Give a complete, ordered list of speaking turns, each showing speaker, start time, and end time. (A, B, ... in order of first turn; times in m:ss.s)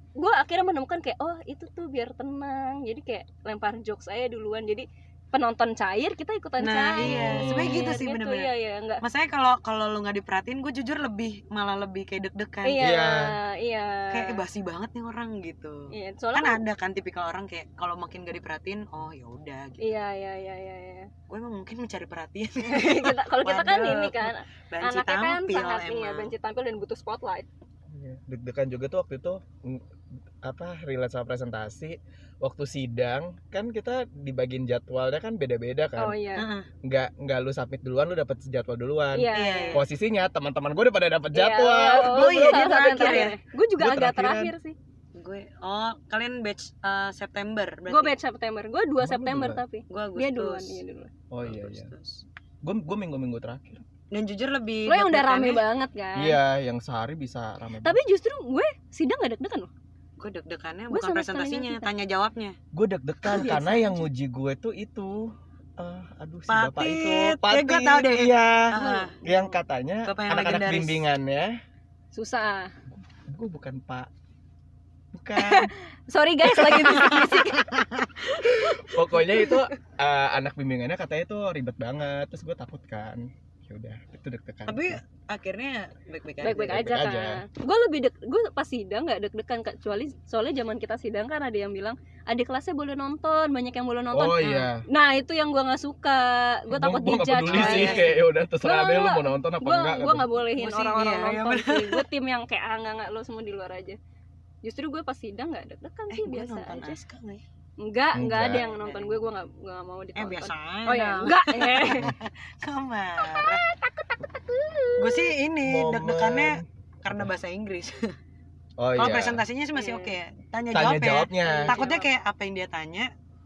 0:00.2-0:09.0 A
0:06.6-0:08.5 B
0:07.0-0:08.0 C
0:09.0-0:12.9 B
0:12.6-0:14.4 A
0:12.8-0:13.3 C
0:14.1-0:19.9 B
0:15.9-0:16.6 A
0:19.8-0:21.1 A
0:21.3-0:26.3 B
0:22.7-0:27.5 A
0:27.9-0:29.8 C
0:30.4-0:36.2 C
0:36.0-0:36.5 A
0:36.4-0:36.7 B
0:36.8-0:42.8 C
0:39.1-0:39.8 A
0:39.3-0:39.8 B
0:41.3-0:44.8 A
0:41.9-0:43.4 B
0:43.8-0:44.5 C
0:45.1-0:48.2 B
0:47.9-0:51.1 A
0:49.0-0:49.6 C
0:49.9-0:50.8 B
0:51.3-0:51.9 C
0:51.4-0:52.2 B
0:52.6-0:53.8 C
0:54.1-0:55.6 B
0:54.9-0:56.4 A
0:56.2-0:58.0 C
0:57.8-0:59.7 A
1:00.2-1:02.6 B
1:00.9-1:01.9 A
1:02.7-1:11.6 C
1:03.3-1:04.0 A
1:06.5-1:09.1 B
1:08.7-1:09.5 A
1:10.0-1:11.0 B
1:12.1-1:12.7 A
1:13.3-1:14.1 C
1:15.1-1:15.7 C
1:15.4-1:17.8 A
1:16.8-1:18.9 B
1:18.8-1:25.0 C
1:24.7-1:26.8 B
1:26.4-1:38.1 A
1:26.6-1:27.4 C
1:34.1-1:34.8 C
1:36.7-1:40.3 C
1:37.4-1:38.2 B
1:38.6-1:44.0 A
1:40.6-1:42.0 B
1:44.6-1:47.0 A
1:46.1-1:47.4 B
1:47.8-1:52.1 A
1:48.1-1:48.7 C
1:48.6-1:49.2 B
1:50.2-1:53.6 B
1:53.2-1:55.3 A
1:55.0-1:58.1 B
1:55.6-1:57.3 C
1:58.8-1:59.4 C
1:59.0-2:03.1 B
1:59.7-2:00.1 A
2:00.7-2:01.8 C
2:01.4-2:02.1 A